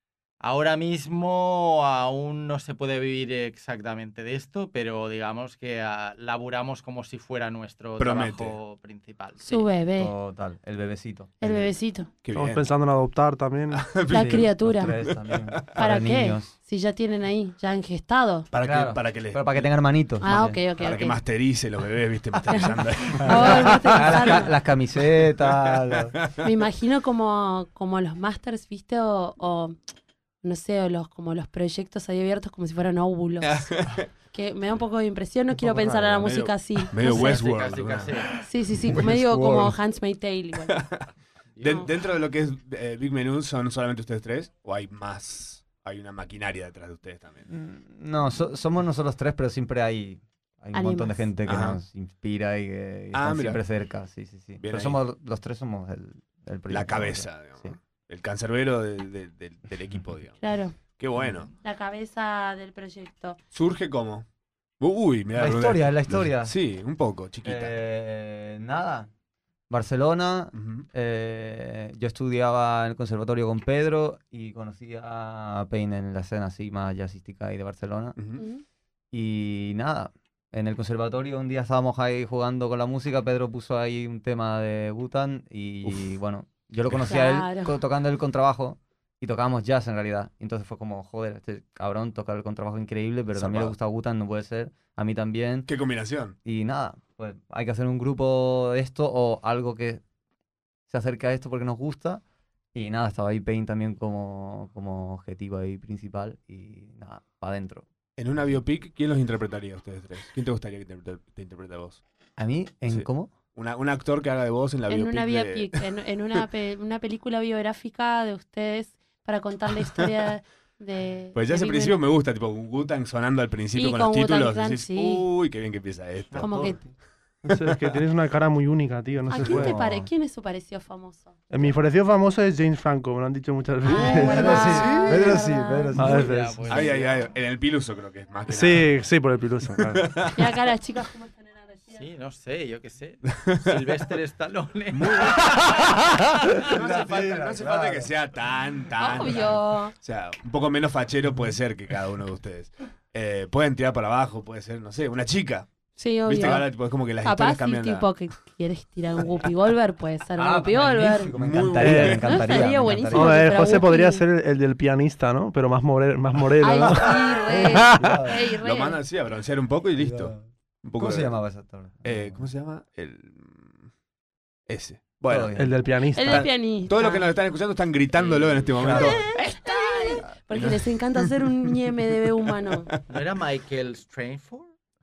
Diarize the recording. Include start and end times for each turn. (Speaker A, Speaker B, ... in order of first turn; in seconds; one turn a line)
Speaker A: 0.4-9.7
Speaker B: 8.0-8.6
Speaker C: 9.4-10.1
Speaker D: 10.0-11.7
Speaker C: 11.4-12.1
Speaker B: 12.2-12.7
Speaker E: 12.3-14.0
Speaker B: 13.7-15.8
Speaker C: 14.1-14.9
Speaker D: 14.1-16.5
Speaker C: 15.8-18.5
Speaker B: 18.5-19.7
Speaker D: 18.6-20.6
Speaker C: 20.2-21.2
Speaker B: 20.8-24.5
Speaker C: 22.5-24.5
Speaker D: 23.2-26.2
Speaker B: 25.0-26.4
Speaker C: 26.4-29.8
Speaker C: 30.4-33.7
Speaker B: 33.4-34.1
Speaker C: 34.3-37.4
Speaker D: 35.6-36.4
Speaker B: 36.2-38.2
Speaker A: 37.0-38.3
Speaker C: 38.4-40.8
Speaker B: 38.8-39.7
Speaker B: 40.7-41.0
Speaker A: 41.6-41.8
Speaker B: 41.6-47.5
Speaker D: 47.5-57.8
Speaker C: 50.7-51.2
Speaker B: 51.5-51.8
Speaker B: 53.1-53.6
Speaker B: 54.6-55.0
Speaker B: 56.7-60.4
Speaker C: 60.4-60.8
Speaker B: 61.0-61.5
Speaker C: 61.6-63.4
Speaker B: 63.5-64.3
Speaker B: 64.8-67.8
Speaker D: 65.3-66.5
Speaker D: 67.4-69.1
Speaker D: 69.7-78.2
Speaker B: 70.5-70.9
Speaker B: 78.2-78.4
Speaker C: 78.4-78.6
Speaker D: 79.1-95.7
Speaker B: 85.8-86.1
Speaker B: 86.9-87.1
Speaker C: 87.1-87.8
Speaker B: 93.3-93.7
Speaker B: 95.7-96.3
Speaker D: 96.4-100.0
Speaker D: 100.9-102.2
Speaker D: 102.7-107.8
Speaker B: 108.2-112.0
Speaker D: 112.4-113.3
Speaker B: 112.9-116.4
Speaker C: 114.9-122.0
Speaker B: 121.3-126.6
Speaker C: 123.7-125.2
Speaker D: 126.3-126.9
Speaker C: 126.3-126.8
Speaker E: 127.5-129.8
Speaker B: 127.5-128.0
Speaker C: 129.3-131.4
Speaker D: 129.3-130.1
Speaker E: 131.5-134.9
Speaker C: 133.8-136.2
Speaker B: 133.9-135.2
Speaker D: 134.0-136.4
Speaker E: 135.9-136.8
Speaker A: 136.2-137.2
Speaker B: 136.7-138.9
Speaker E: 138.5-140.1
Speaker B: 139.8-140.5
Speaker C: 140.3-142.0
Speaker A: 141.9-146.0
Speaker B: 144.9-145.7
Speaker B: 146.6-155.7
Speaker D: 146.6-148.1
Speaker C: 148.9-149.9
Speaker C: 156.0-156.7
Speaker B: 156.2-158.1
Speaker C: 157.2-161.3
Speaker D: 160.4-163.8
Speaker B: 161.3-162.6
Speaker E: 161.8-162.2
Speaker C: 162.2-164.2
Speaker E: 163.1-168.0
Speaker C: 166.6-169.0
Speaker D: 167.5-168.4
Speaker B: 168.6-171.3
Speaker D: 170.0-170.4
Speaker D: 171.0-172.5
Speaker B: 172.0-173.9
Speaker B: 174.7-175.5
Speaker D: 175.3-175.9
Speaker E: 175.6-176.5
Speaker C: 176.1-177.3
Speaker B: 176.3-179.8
Speaker A: 178.1-179.0
Speaker D: 178.8-179.2
Speaker C: 178.9-182.9
Speaker B: 180.5-181.5
Speaker B: 182.7-183.0
Speaker A: 183.1-184.7